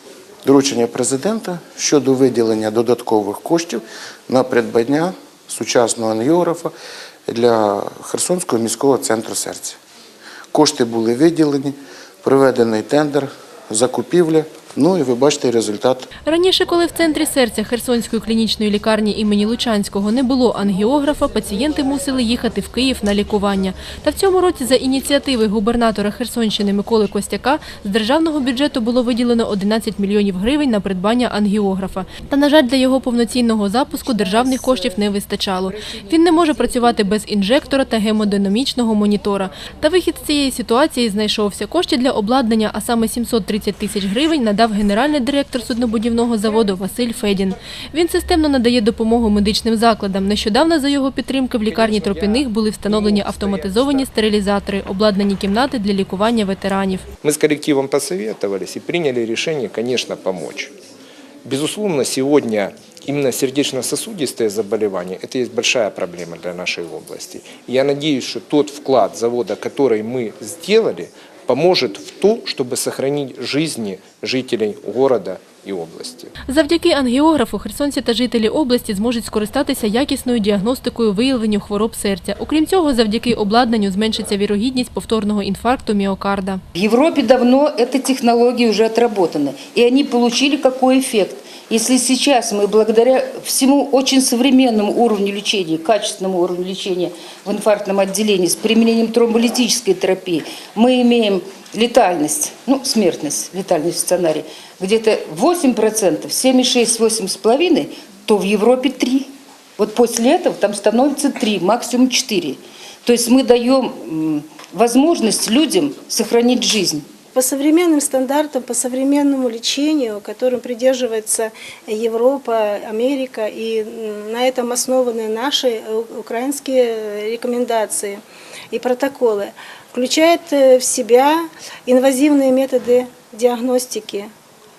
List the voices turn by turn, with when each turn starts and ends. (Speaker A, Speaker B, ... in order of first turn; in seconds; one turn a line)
Speaker A: 0.5-6.7
Speaker A: 7.3-9.8
Speaker A: 10.5-16.1
Speaker B: 16.3-57.0
Speaker C: 51.6-54.1
Speaker C: 57.2-60.7
Speaker C: 61.5-76.3
Speaker B: 76.5-86.6
Speaker D: 86.8-117.0
Speaker E: 117.3-128.2
Speaker E: 128.7-134.3